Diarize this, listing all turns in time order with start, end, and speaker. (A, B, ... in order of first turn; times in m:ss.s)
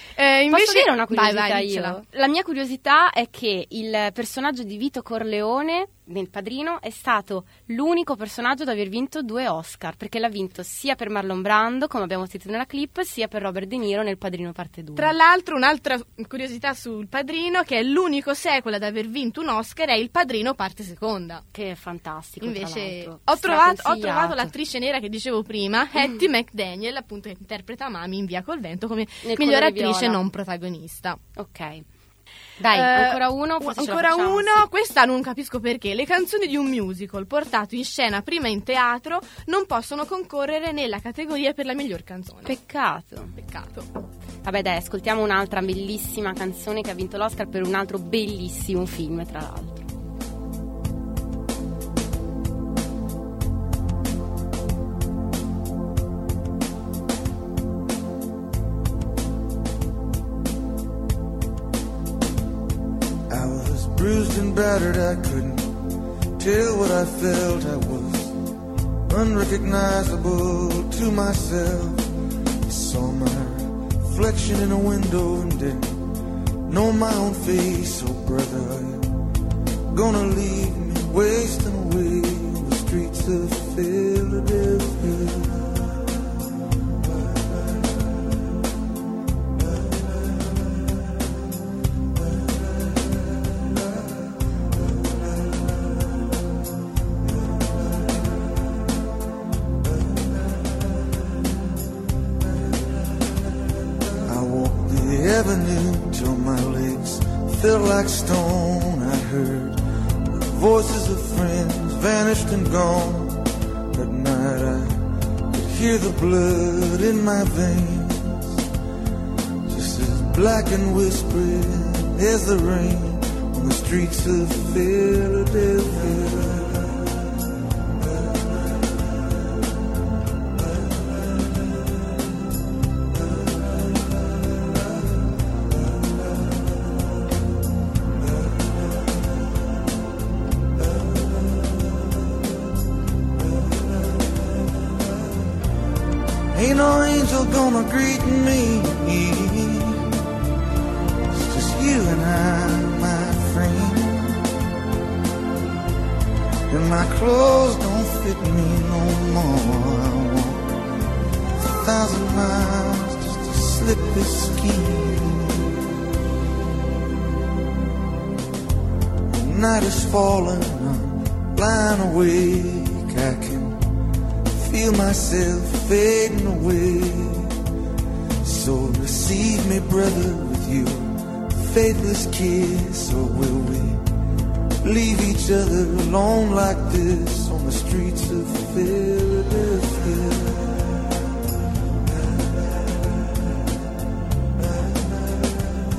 0:00.2-0:02.0 A
0:00.5-0:15.1 B
0:15.0-0:21.4 A
0:21.5-0:24.5 B
0:22.4-0:31.2 A
0:29.2-0:30.2 B
0:31.4-0:31.8 B
0:32.6-0:34.6 B
0:32.7-0:42.6 A
0:42.4-0:43.3 B
0:43.3-0:43.9 A
0:44.4-0:49.9 B
1:03.3-1:05.7 C
1:06.4-1:08.3 C
1:09.1-1:12.1 C
1:12.7-1:16.0 C
1:16.7-1:19.1 C
1:19.9-1:25.6 C
1:44.3-1:49.8 C
1:50.3-1:58.6 C
1:59.6-2:07.0 C
2:26.5-2:30.1 C
2:31.4-2:34.4 C
2:36.7-2:40.6 C
2:41.8-2:45.7 C
2:49.3-2:53.8 C
2:54.5-2:57.5 C
2:58.4-3:04.0 C
3:04.8-3:10.6 C